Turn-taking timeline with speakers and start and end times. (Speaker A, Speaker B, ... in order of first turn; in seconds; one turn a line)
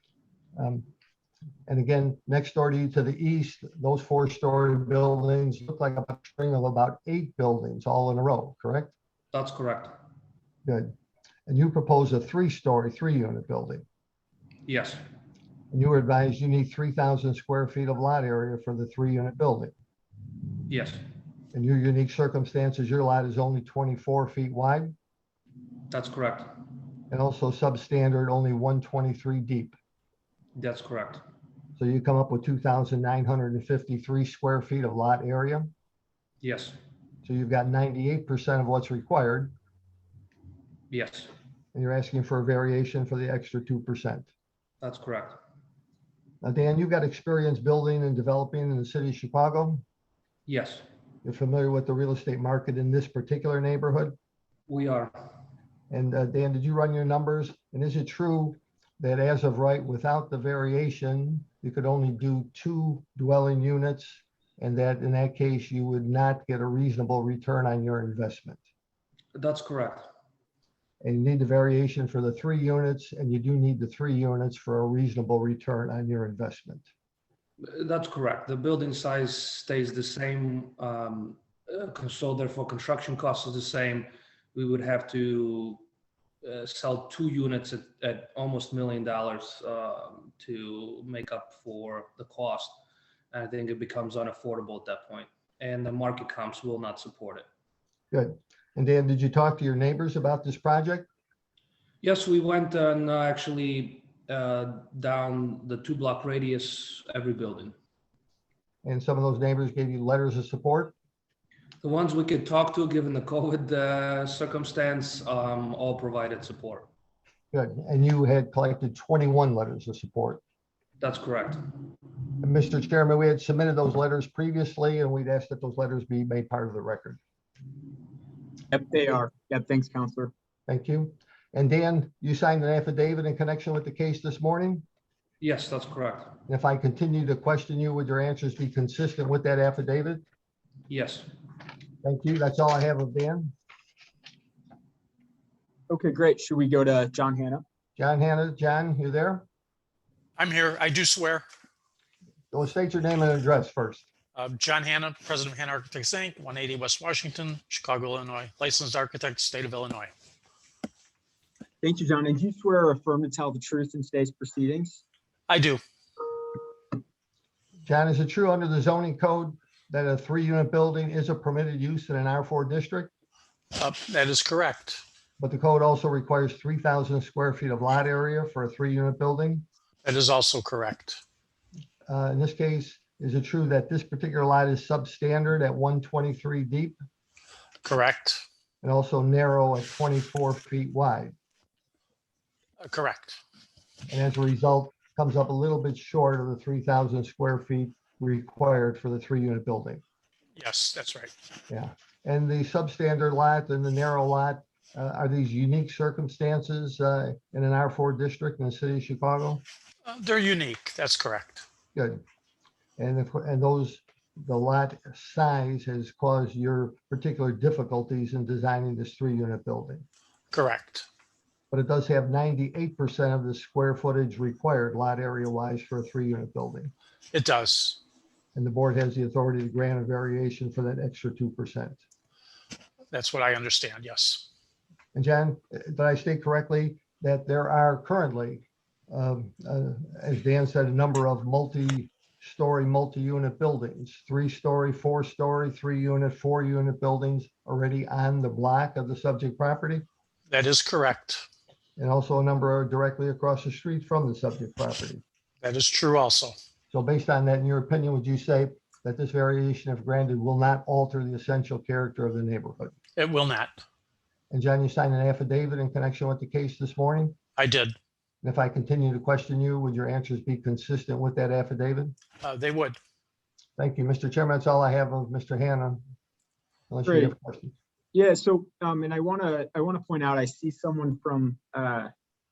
Speaker A: 0.6-0.9
Speaker A: 1.7-8.9
Speaker B: 9.3-10.0
Speaker A: 10.6-10.9
Speaker A: 11.5-13.8
Speaker B: 14.7-15.0
Speaker A: 15.7-19.7
Speaker B: 20.7-21.0
Speaker A: 21.5-24.9
Speaker B: 25.9-26.5
Speaker A: 27.1-29.8
Speaker B: 30.6-31.2
Speaker A: 31.8-35.7
Speaker B: 36.4-36.8
Speaker A: 37.2-39.5
Speaker B: 40.9-41.3
Speaker A: 41.7-44.3
Speaker B: 44.8-45.4
Speaker A: 46.4-49.8
Speaker B: 50.5-50.8
Speaker A: 51.2-54.2
Speaker B: 54.7-55.1
Speaker A: 55.9-68.6
Speaker B: 69.3-70.1
Speaker A: 71.0-76.9
Speaker B: 77.6-85.8
Speaker B: 86.4-92.8
Speaker B: 93.3-97.5
Speaker A: 98.1-101.1
Speaker B: 102.0-107.8
Speaker A: 108.8-110.9
Speaker B: 111.8-116.9
Speaker A: 117.5-120.4
Speaker B: 121.0-121.6
Speaker A: 122.4-127.2
Speaker C: 128.7-130.3
Speaker A: 130.7-134.8
Speaker B: 135.4-136.3
Speaker A: 136.5-140.2
Speaker B: 140.9-141.3
Speaker A: 142.0-143.5
Speaker C: 145.9-147.6
Speaker A: 148.0-149.4
Speaker D: 150.4-151.4
Speaker A: 152.5-154.1
Speaker D: 154.3-160.1
Speaker C: 161.8-165.0
Speaker D: 165.5-165.8
Speaker A: 167.8-173.1
Speaker D: 173.8-175.0
Speaker A: 175.4-179.6
Speaker D: 180.0-181.2
Speaker A: 182.1-187.0
Speaker D: 187.8-188.4
Speaker A: 188.8-191.3
Speaker D: 192.8-193.4
Speaker A: 194.1-200.0
Speaker D: 200.6-201.3
Speaker A: 201.7-209.6
Speaker D: 210.1-211.6
Speaker A: 211.9-212.2
Speaker A: 213.0-220.0
Speaker D: 220.5-221.1
Speaker A: 221.7-226.9
Speaker D: 227.3-228.0
Speaker A: 228.5-232.0
Speaker D: 233.1-234.5
Speaker A: 235.1-250.1
Speaker D: 250.5-251.4
Speaker A: 252.0-255.2
Speaker D: 255.6-256.6
Speaker A: 256.9-262.9
Speaker D: 263.1-263.8
Speaker A: 264.5-267.4
Speaker D: 267.6-267.9
Speaker A: 268.4-272.1
Speaker D: 272.4-273.0
Speaker A: 273.8-276.0
Speaker A: 276.9-277.7
Speaker C: 277.1-277.3
Speaker C: 278.1-282.1